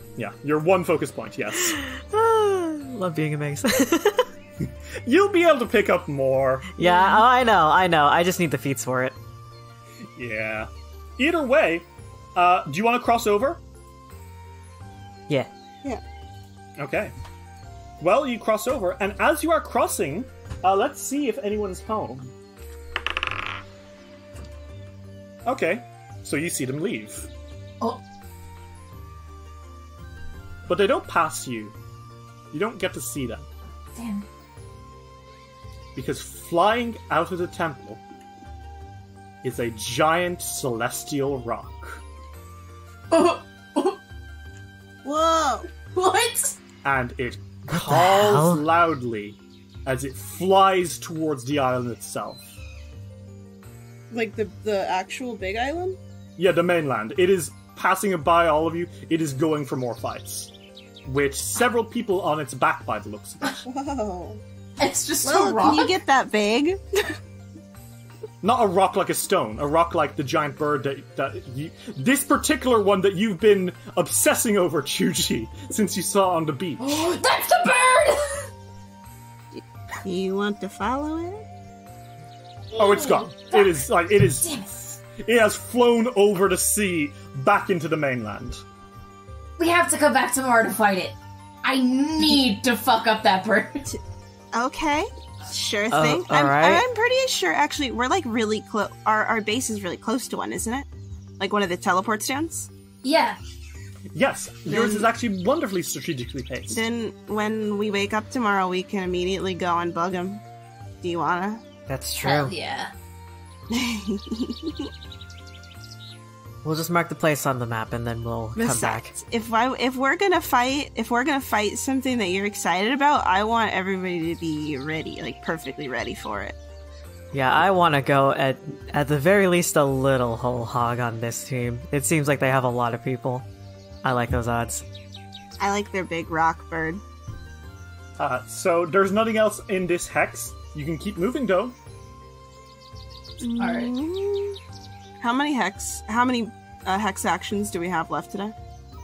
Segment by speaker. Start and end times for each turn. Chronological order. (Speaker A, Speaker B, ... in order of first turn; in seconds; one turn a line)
Speaker A: 0.2-1.8
Speaker B: 1.6-4.3
Speaker A: 5.0-6.7
Speaker B: 6.7-9.2
Speaker C: 6.8-7.2
Speaker A: 10.2-13.6
Speaker A: 16.8-17.1
Speaker A: 18.0-22.3
Speaker A: 25.4-27.3
Speaker A: 30.7-31.8
Speaker A: 32.5-33.5
Speaker C: 34.0-34.2
Speaker A: 36.0-38.0
Speaker A: 39.4-42.0
Speaker C: 43.1-44.0
Speaker D: 45.0-45.7
Speaker C: 45.9-46.6
Speaker A: 46.8-52.6
Speaker B: 47.7-48.6
Speaker D: 54.1-56.0
Speaker A: 56.4-60.5
Speaker A: 61.0-63.6
Speaker D: 63.6-64.4
Speaker C: 64.8-65.9
Speaker D: 65.2-67.2
Speaker A: 68.4-77.2
Speaker C: 76.8-78.5
Speaker D: 79.5-81.5
Speaker C: 82.7-85.0
Speaker A: 82.8-88.6
Speaker C: 89.6-93.9
Speaker D: 94.5-100.9
Speaker B: 95.9-96.8
Speaker D: 101.4-102.7
Speaker C: 103.0-103.4
Speaker A: 104.1-106.8
Speaker D: 104.7-105.1
Speaker D: 106.7-110.4
Speaker D: 111.0-111.6
Speaker B: 111.9-112.5
Speaker C: 112.2-112.9
Speaker D: 113.7-114.9
Speaker B: 116.6-119.1
Speaker D: 118.6-126.6
Speaker B: 127.3-133.5
Speaker B: 134.0-134.8
Speaker D: 135.6-137.0
Speaker A: 138.2-141.8
Speaker D: 143.4-144.6
Speaker C: 143.6-143.9
Speaker D: 145.2-148.6